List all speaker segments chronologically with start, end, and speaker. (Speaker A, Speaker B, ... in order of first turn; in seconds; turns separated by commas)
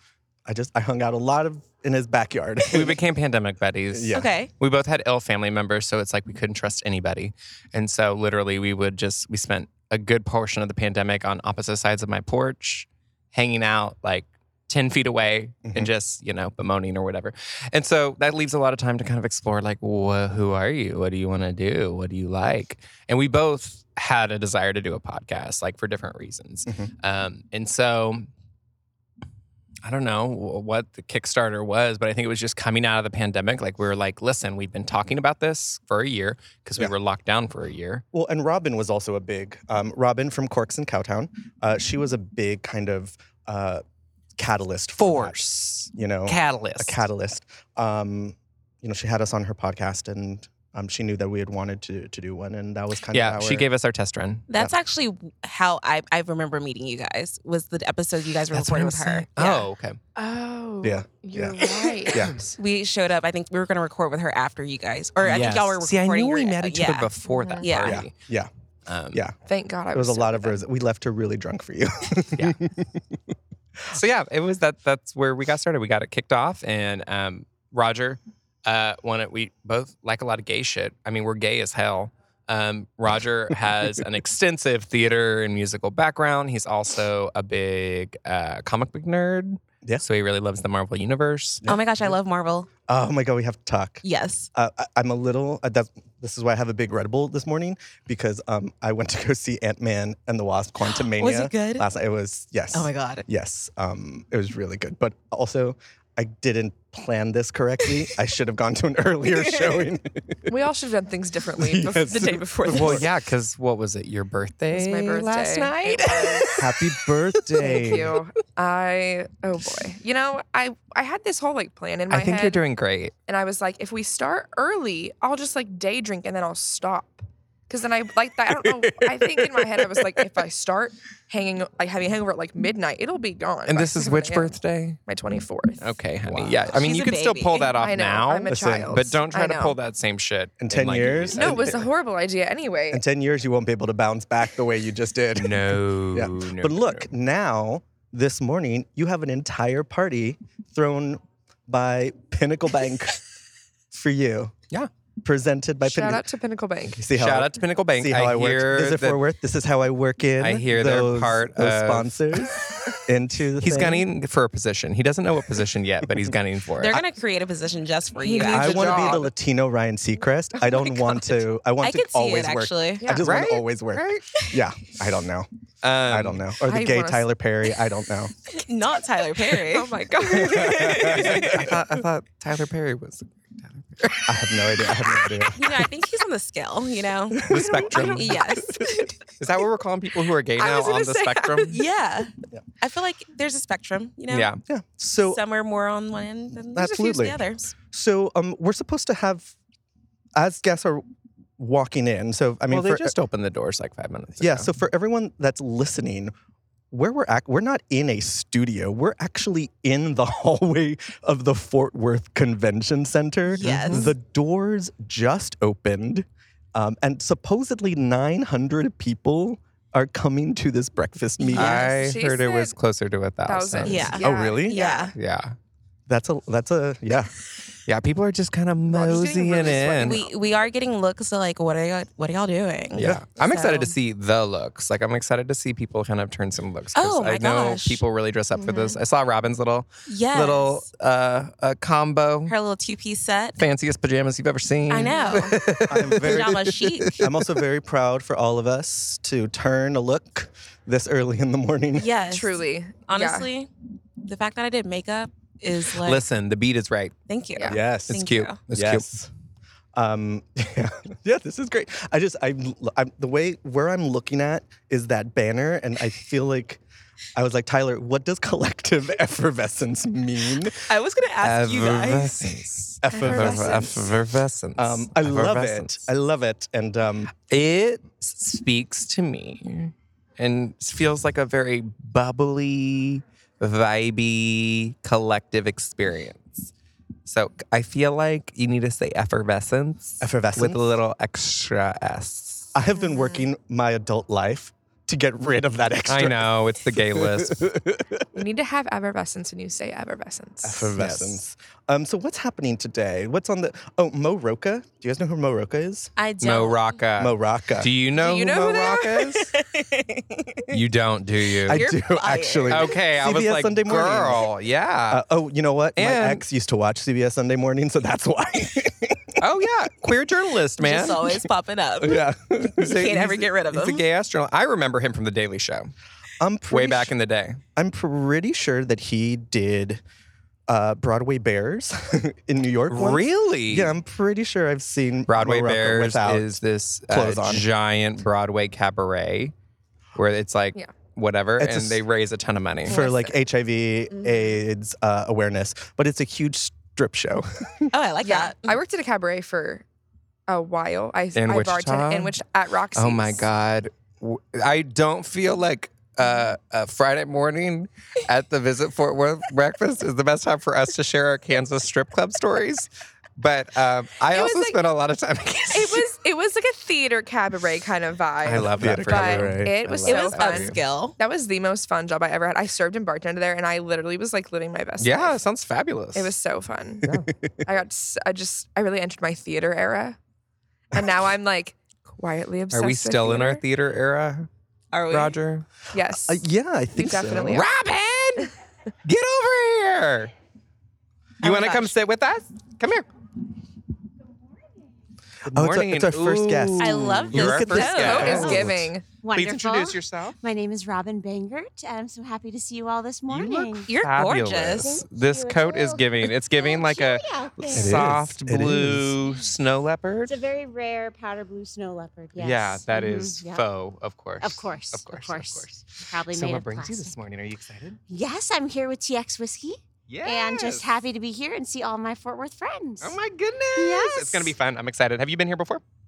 Speaker A: 0.5-3.0, Speaker B: 2.7-28.3, Speaker A: 3.9-4.3, Speaker C: 4.1-4.5, Speaker A: 15.6-15.9, Speaker B: 29.8-38.0, Speaker A: 38.1-43.8, Speaker A: 44.4-53.7, Speaker B: 45.0-47.0, Speaker B: 53.1-54.5, Speaker C: 54.5-59.7, Speaker B: 58.5-60.0, Speaker D: 60.1-62.4, Speaker A: 60.8-62.4, Speaker C: 62.5-68.0, Speaker B: 65.2-68.1, Speaker D: 67.3-67.7, Speaker A: 67.8-68.5, Speaker B: 68.9-69.2, Speaker D: 69.5-70.6, Speaker A: 69.9-73.2, Speaker B: 73.9-91.6, Speaker A: 91.6-92.2, Speaker C: 91.6-92.7, Speaker A: 92.9-110.5, Speaker C: 94.0-94.5, Speaker C: 100.9-101.9, Speaker C: 102.7-103.2, Speaker C: 109.5-109.8, Speaker D: 110.5-113.1, Speaker A: 111.6-113.1, Speaker B: 112.7-117.9, Speaker D: 114.7-116.5, Speaker A: 116.6-118.2, Speaker D: 117.6-122.6, Speaker B: 122.1-123.1, Speaker D: 123.3-135.9, Speaker A: 128.5-130.2, Speaker B: 133.7-135.0, Speaker B: 135.8-141.9, Speaker A: 136.2-136.6, Speaker C: 136.7-137.7, Speaker D: 137.6-139.8, Speaker A: 138.5-139.1, Speaker A: 140.6-141.9, Speaker D: 141.3-143.0, Speaker A: 142.9-153.2, Speaker B: 145.4-147.1, Speaker A: 153.9-154.5, Speaker A: 155.2-156.2, Speaker D: 155.8-157.0, Speaker A: 156.9-164.1, Speaker B: 157.1-159.2, Speaker B: 160.4-162.5, Speaker B: 163.6-167.0, Speaker C: 166.8-169.2, Speaker D: 168.2-169.3, Speaker A: 168.4-175.5, Speaker C: 171.8-173.1, Speaker D: 173.0-173.3, Speaker B: 173.2-174.2, Speaker B: 175.8-176.5, Speaker A: 176.1-178.3, Speaker D: 176.7-177.3, Speaker C: 178.5-181.7, Speaker D: 179.4-181.4, Speaker A: 180.3-181.8, Speaker B: 181.2-185.5, Speaker A: 184.2-185.9, Speaker C: 185.5-189.1, Speaker A: 187.4-189.0, Speaker B: 187.4-188.5, Speaker B: 189.4-191.8, Speaker D: 190.6-191.8, Speaker C: 191.7-192.3, Speaker C: 192.8-194.5, Speaker B: 194.3-194.6, Speaker A: 194.7-195.4, Speaker C: 195.2-197.7, Speaker A: 196.6-199.5, Speaker A: 200.3-201.0, Speaker A: 201.6-203.1, Speaker B: 202.7-204.7, Speaker A: 204.4-206.3, Speaker A: 206.9-221.8, Speaker C: 213.5-214.1, Speaker B: 213.6-214.1, Speaker D: 221.5-222.8, Speaker C: 221.5-221.8, Speaker B: 221.5-224.2, Speaker D: 223.5-225.1, Speaker C: 223.8-225.1, Speaker A: 224.2-224.8, Speaker B: 225.1-225.6, Speaker A: 226.1-227.3, Speaker B: 227.9-230.2, Speaker D: 229.0-230.2, Speaker C: 229.1-233.9, Speaker B: 232.9-242.5, Speaker A: 233.0-233.2, Speaker C: 236.9-238.0, Speaker D: 238.6-239.0, Speaker C: 240.1-240.8, Speaker C: 242.5-243.6, Speaker B: 243.6-247.4, Speaker C: 244.9-247.2, Speaker D: 245.0-245.5, Speaker A: 245.9-252.1, Speaker C: 252.0-253.7, Speaker D: 252.3-253.5, Speaker C: 254.2-256.2, Speaker B: 256.0-257.1, Speaker C: 257.3-258.6, Speaker D: 257.6-257.8, Speaker A: 257.6-259.3, Speaker B: 258.1-259.1, Speaker A: 259.9-266.8, Speaker A: 267.4-270.9, Speaker C: 270.9-272.6, Speaker B: 271.4-276.1, Speaker A: 273.0-273.9, Speaker C: 273.2-273.9, Speaker D: 273.2-273.8, Speaker A: 274.8-277.3, Speaker B: 277.5-286.7, Speaker B: 287.2-292.7, Speaker A: 290.2-291.0, Speaker A: 292.7-296.6, Speaker B: 296.1-297.7, Speaker A: 297.1-298.3, Speaker D: 298.3-301.0, Speaker A: 300.6-306.1, Speaker B: 301.0-301.4, Speaker C: 306.2-306.9, Speaker B: 306.4-309.5, Speaker A: 307.2-307.9, Speaker D: 308.1-309.4, Speaker C: 309.4-310.8, Speaker B: 310.7-311.9, Speaker C: 311.6-313.0, Speaker A: 311.7-314.5, Speaker B: 312.7-315.2, Speaker A: 315.1-319.4, Speaker B: 316.0-316.4, Speaker B: 319.4-321.4, Speaker C: 320.8-324.0, Speaker A: 322.0-323.2, Speaker B: 322.8-325.9, Speaker A: 326.4-327.1, Speaker B: 326.7-327.6, Speaker A: 327.8-330.0, Speaker A: 330.7-337.6, Speaker B: 332.9-333.9, Speaker B: 335.3-339.5, Speaker B: 340.1-343.0, Speaker A: 341.6-342.0, Speaker D: 342.9-343.4, Speaker A: 342.9-347.9, Speaker D: 344.1-344.6, Speaker C: 347.9-348.8, Speaker D: 348.2-349.8, Speaker D: 350.5-353.5, Speaker B: 351.4-352.4, Speaker B: 352.9-366.1, Speaker D: 364.3-364.8, Speaker D: 365.7-375.4, Speaker B: 368.4-370.8, Speaker A: 368.6-370.2, Speaker C: 370.1-371.1, Speaker B: 375.0-376.3, Speaker D: 376.1-377.1, Speaker A: 377.1-377.6, Speaker D: 377.6-380.2, Speaker D: 380.9-383.6, Speaker B: 382.7-384.5, Speaker C: 384.9-385.4, Speaker B: 385.1-385.6, Speaker D: 385.9-387.7, Speaker A: 386.2-387.6, Speaker B: 387.5-388.5, Speaker B: 389.1-390.3, Speaker C: 391.4-391.9, Speaker B: 391.4-393.1, Speaker A: 395.5-398.9, Speaker B: 395.5-398.7, Speaker C: 396.8-398.6, Speaker D: 397.9-399.1, Speaker E: 398.2-403.9, Speaker B: 399.3-400.4, Speaker B: 403.3-410.4, Speaker C: 403.9-405.0, Speaker E: 404.8-408.1, Speaker A: 407.7-409.1, Speaker E: 410.2-413.6, Speaker B: 412.4-418.0, Speaker E: 414.4-417.2, Speaker E: 418.1-423.1, Speaker B: 420.1-420.9, Speaker B: 423.0-425.8, Speaker E: 423.8-424.6